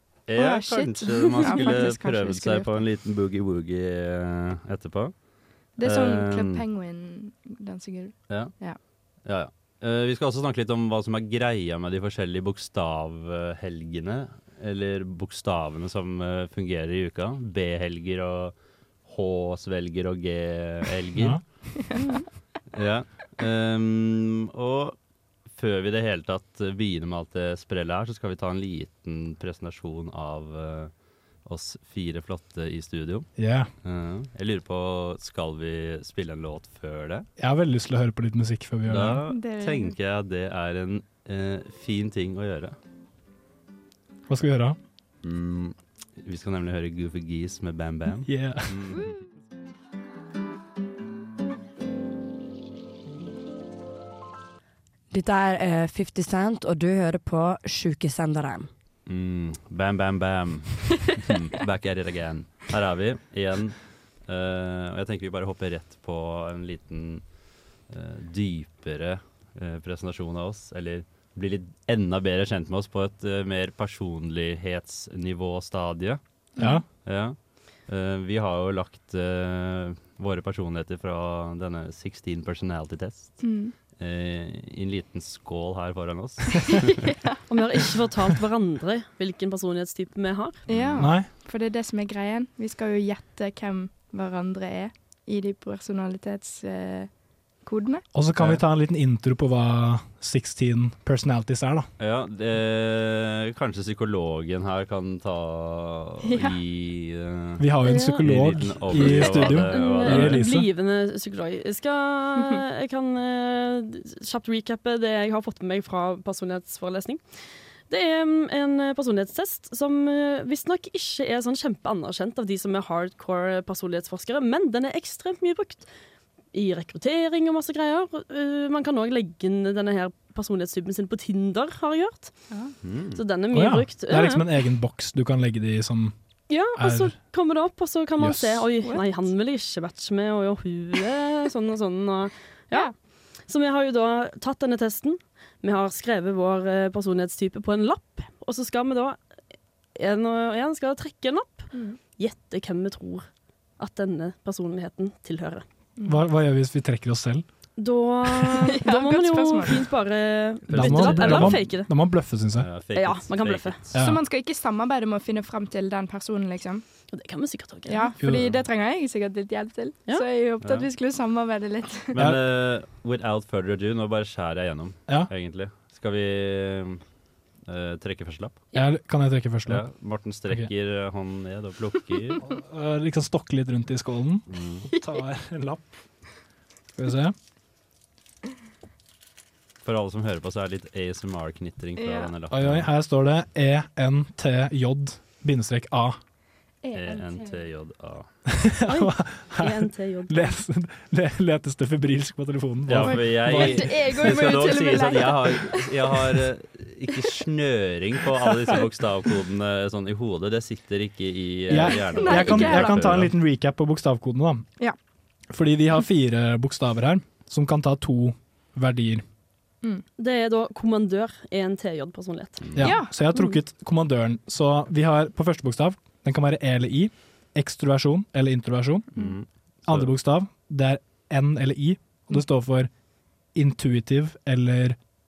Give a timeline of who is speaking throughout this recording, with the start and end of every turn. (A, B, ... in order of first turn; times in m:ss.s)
0:00.3-0:05.1 A
0:00.4-0:02.7 B
0:01.3-0:01.7 C
0:05.8-0:06.6 A
0:05.8-0:08.8 B
0:09.2-0:21.4 A
0:21.2-0:21.8 D
0:21.8-0:22.2 B
0:22.7-0:25.0 A
0:25.5-0:30.9 A
0:31.4-0:33.3 A
0:33.4-0:33.7 D
0:33.8-0:37.3 A
0:37.4-0:39.2 D
0:38.9-0:42.8 A
0:39.3-0:39.9 B
0:44.3-0:44.8 D
0:45.2-0:49.1 A
0:48.2-0:49.0 D
0:55.1-0:58.7 E
0:59.0-1:07.2 A
1:07.9-1:16.2 A
1:16.6-1:16.8 B
1:16.6-1:16.8 D
1:17.0-1:23.4 A
1:23.4-1:23.7 B
1:24.0-1:27.0 A
1:26.7-1:27.4 B
1:27.5-1:30.6 C
1:30.7-1:37.1 B
1:30.7-1:31.1 A
1:31.0-1:31.3 D
1:37.6-1:38.0 B
1:38.1-1:41.9 D
1:38.4-1:38.6 A
1:42.0-1:50.4 A
1:46.2-1:46.6 B
1:47.6-1:50.7 D
1:47.8-1:57.2 C
1:57.9-2:05.9 C
2:06.5-2:12.3 C
2:12.8-2:13.2 A
2:13.1-2:14.5 C
2:13.5-2:16.1 D
2:16.5-2:22.9 C
2:16.7-2:17.2 D
2:18.2-2:18.6 D
2:23.4-2:29.2 C
2:30.0-2:33.3 C
2:31.7-2:32.0 B
2:33.8-2:35.6 C
2:36.0-2:37.4 D
2:37.8-2:41.9 C
2:38.4-2:39.9 B
2:40.7-2:42.7 D
2:40.7-2:41.6 A
2:42.6-2:44.0 A
2:42.9-2:43.8 C
2:43.9-2:44.2 D
2:44.0-2:46.8 B
2:47.1-2:48.2 C
2:47.9-2:52.2 B
2:48.2-2:48.5 D
2:52.1-2:57.0 A
2:57.6-2:58.6 A
2:58.7-2:59.8 D
2:59.7-3:02.4 A
3:02.4-3:05.9 D
3:04.5-3:04.9 A
3:04.9-3:05.2 B
3:07.0-3:07.3 D
3:09.8-3:12.9 A
3:12.0-3:12.3 B
3:12.5-3:16.2 D
3:16.8-3:17.6 B
3:16.9-3:18.3 A
3:18.5-3:24.1 D
3:18.9-3:20.6 C
3:22.8-3:33.3 A
3:23.0-3:26.3 B
3:31.7-3:34.7 D
3:32.1-3:33.1 B
3:35.5-3:39.2 D
3:40.2-3:42.6 C
3:42.6-3:42.9 A
3:42.8-3:49.1 D
3:42.8-3:43.6 B
3:49.1-3:50.1 A
3:49.8-3:52.9 D
3:53.5-3:55.0 D